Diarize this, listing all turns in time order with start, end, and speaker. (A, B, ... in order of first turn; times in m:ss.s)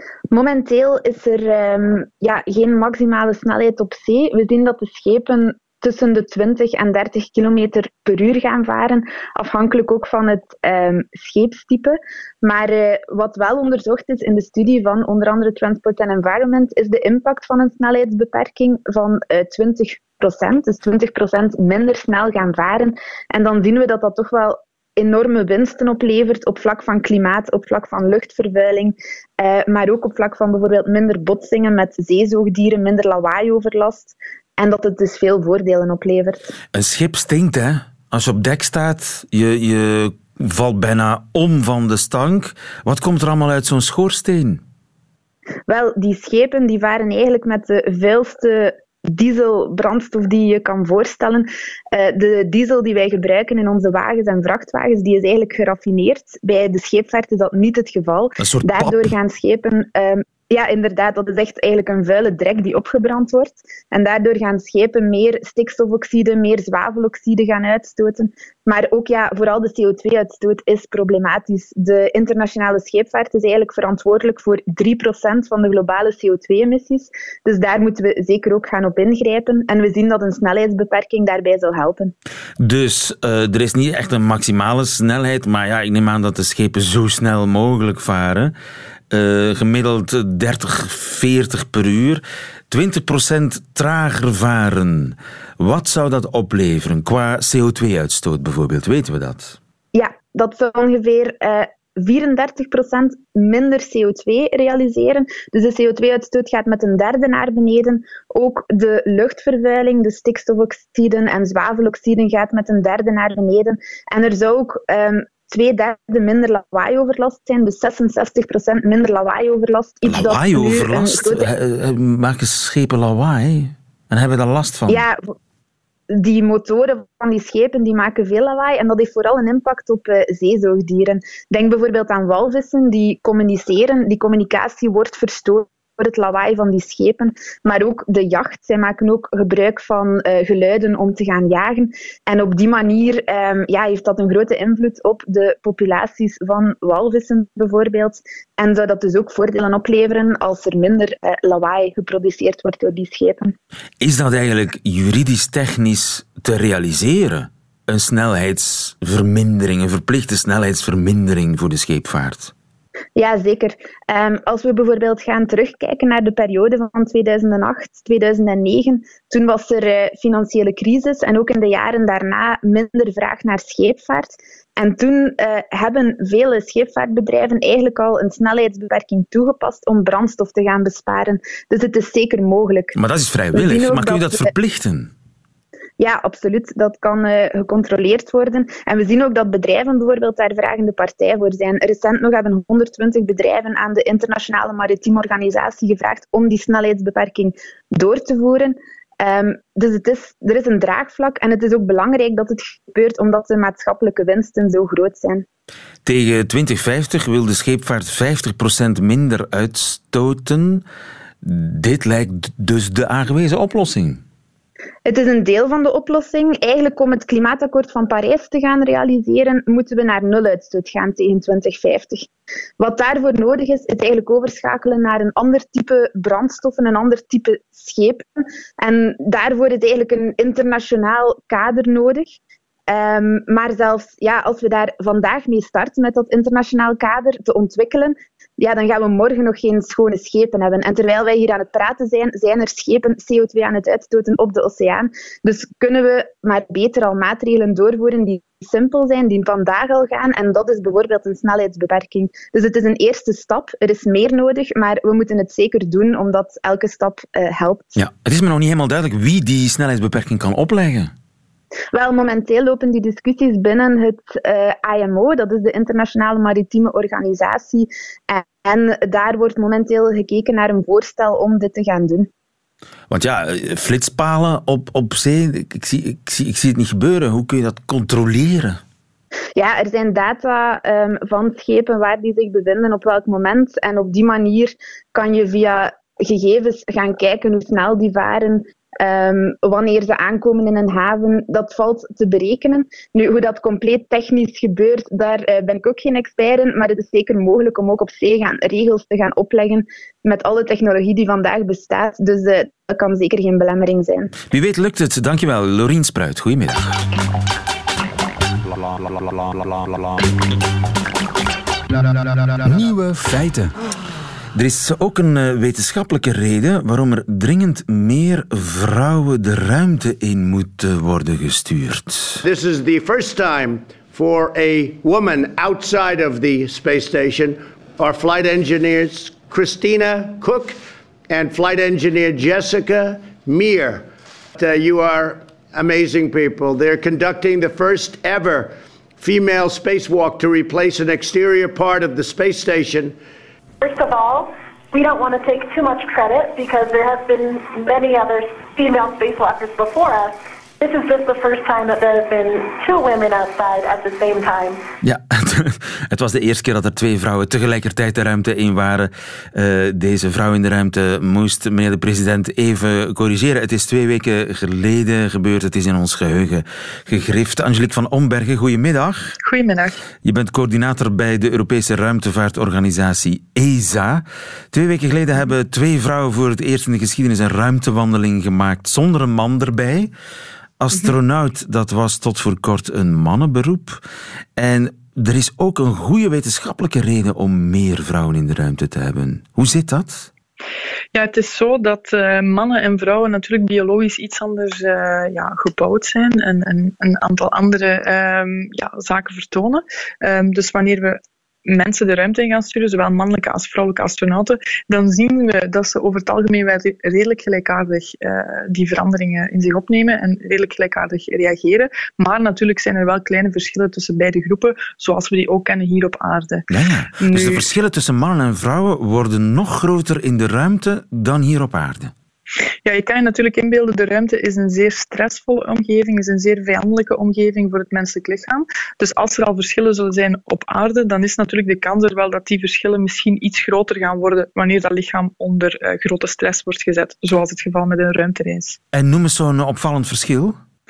0:00.3-0:36.5 A
0:36.7-0:44.6 B
0:45.7-1:22.1 A
0:58.4-0:59.1 B
1:22.6-1:28.5 B
1:29.1-1:39.6 B
1:39.9-2:01.5 A
2:00.1-2:05.0 B
2:04.9-2:05.2 A
2:06.1-2:33.6 A
2:34.0-2:42.5 B
2:43.2-3:03.0 A
3:02.9-3:05.1 B
3:03.5-3:04.5 A
3:06.0-3:25.4 A
3:26.0-3:30.8 B
3:31.4-3:34.2 B
3:35.0-3:42.3 A
3:42.8-4:18.0 A
4:18.0-4:21.1 B
4:21.9-4:32.3 A
4:33.1-4:38.8 B
4:39.6-5:04.3 A
5:04.5-5:07.0 B
5:14.5-5:22.4 B
5:22.4-5:43.2 C
5:43.8-5:54.8 D
5:55.0-6:09.3 B
6:09.4-6:10.0 E
6:10.2-6:20.1 B
6:20.8-6:24.0 B
6:24.6-6:30.3 B
6:31.1-6:56.7 E
6:56.7-7:02.1 B
6:57.2-6:57.7 E
7:02.8-7:18.8 E
7:18.9-7:20.6 B